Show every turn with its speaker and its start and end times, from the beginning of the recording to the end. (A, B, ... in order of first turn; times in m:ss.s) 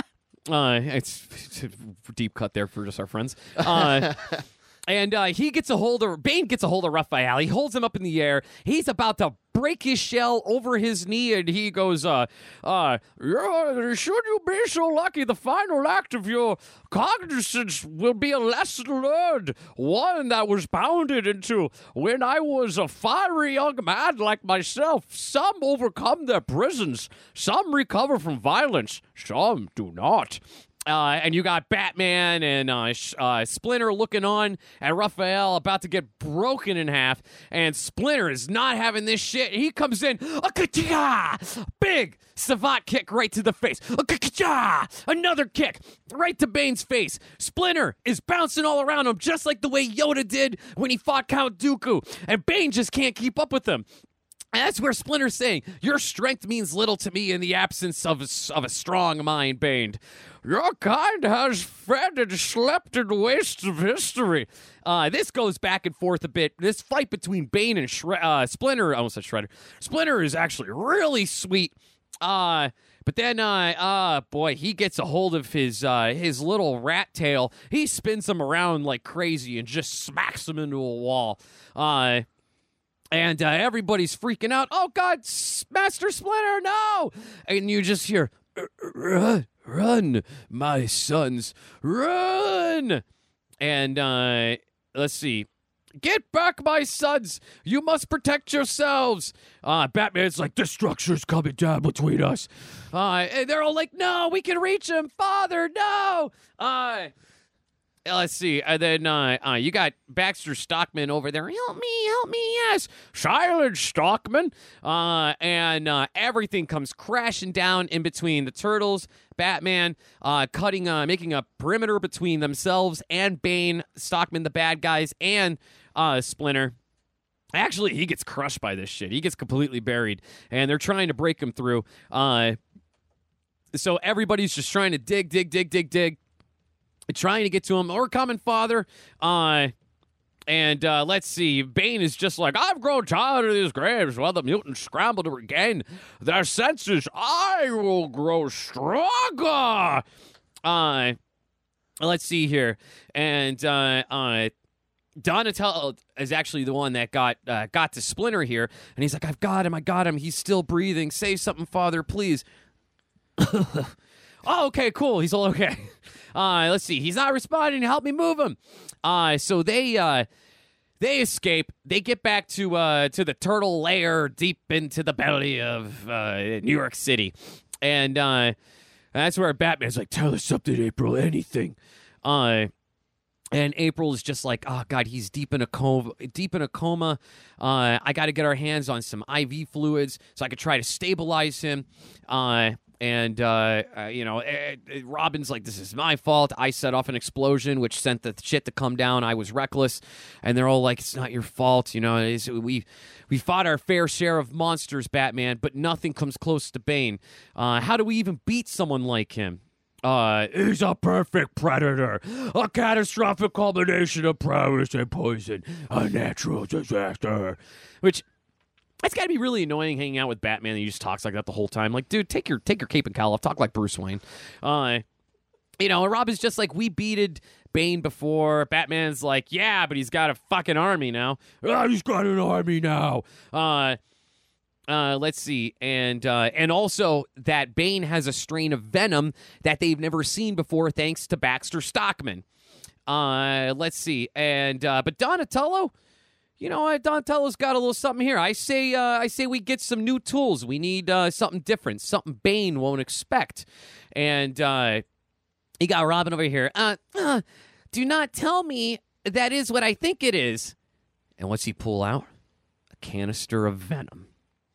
0:00.5-0:53.9 A
0:54.5-1:22.2 A
1:23.1-1:33.0 A
1:33.6-1:35.5 A
1:36.0-1:47.1 A
1:48.0-2:06.7 A
2:07.5-2:12.6 A
2:13.7-2:16.2 A
2:17.1-2:19.7 A
2:20.5-2:30.0 A
2:30.6-2:31.2 A
2:32.0-2:34.5 A
2:35.2-2:42.4 A
2:43.4-2:43.9 A
2:44.4-2:50.2 A
2:51.0-2:58.5 A
2:59.1-3:02.7 A
3:03.5-3:38.2 A
3:39.0-3:45.0 A
3:45.8-3:54.0 A
3:54.9-4:02.4 A
4:03.1-4:05.9 A
4:06.6-4:15.0 A
4:15.8-4:20.7 A
4:21.4-4:22.3 A
4:23.0-4:24.3 A